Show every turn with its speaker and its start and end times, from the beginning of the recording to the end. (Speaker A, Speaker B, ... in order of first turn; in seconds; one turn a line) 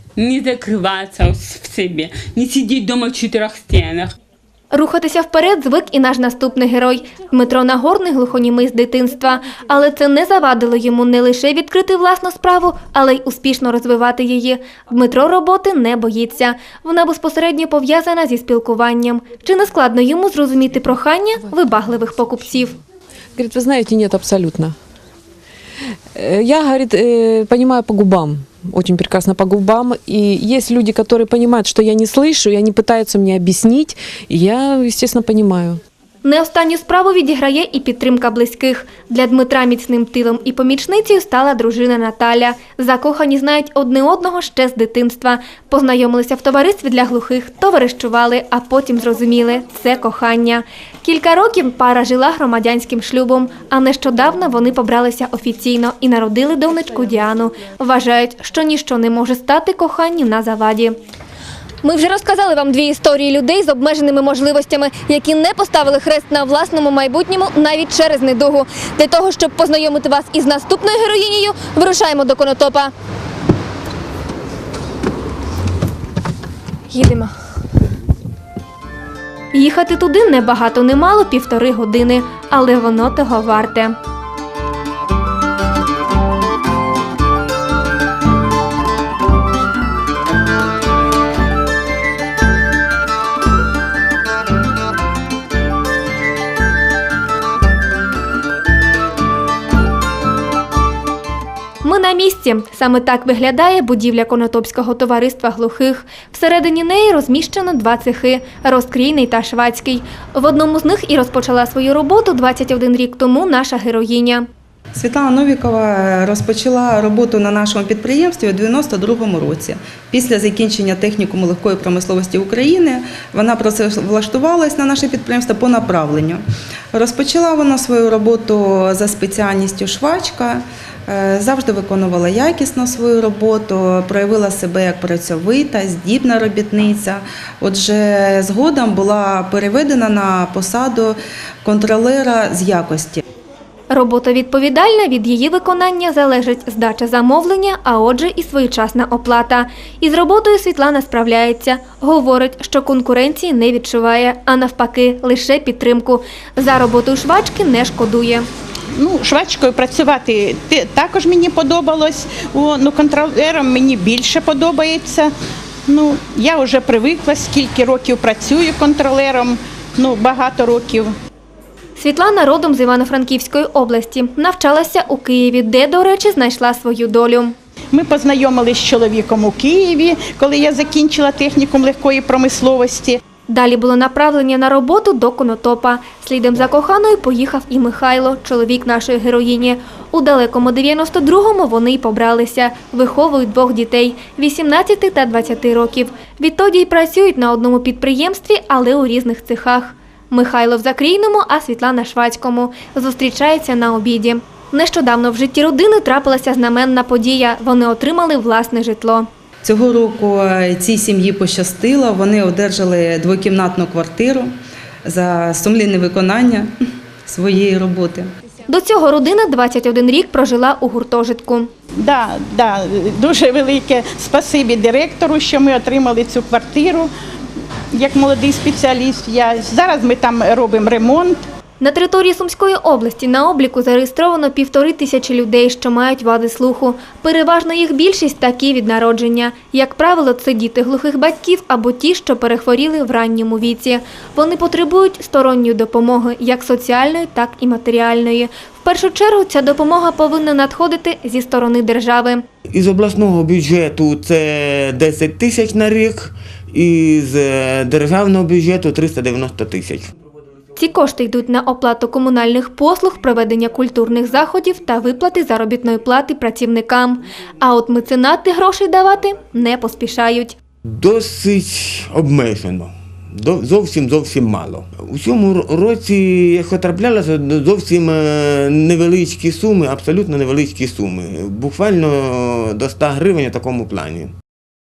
Speaker A: 0.1-4.1
Speaker B: 4.7-22.8
Speaker C: 23.4-24.8
Speaker C: 26.1-35.8
Speaker B: 36.2-61.0
Speaker B: 61.8-72.9
Speaker B: 76.9-77.3
Speaker B: 79.5-84.0
Speaker B: 101.8-114.5
Speaker D: 114.9-126.4
Speaker D: 126.9-143.2
Speaker B: 143.9-158.4
Speaker E: 158.9-165.3
Speaker E: 165.9-171.1
Speaker B: 172.0-177.5
Speaker E: 177.9-183.2
Speaker B: 183.5-209.3
Speaker D: 209.6-214.5
Speaker D: 215.0-216.7
Speaker D: 217.2-218.3
Speaker B: 218.7-221.7
Speaker E: 221.9-227.1
Speaker E: 227.9-231.4
Speaker B: 231.8-252.4
Speaker F: 252.7-260.1
Speaker B: 260.8-270.6
Speaker F: 270.9-284.3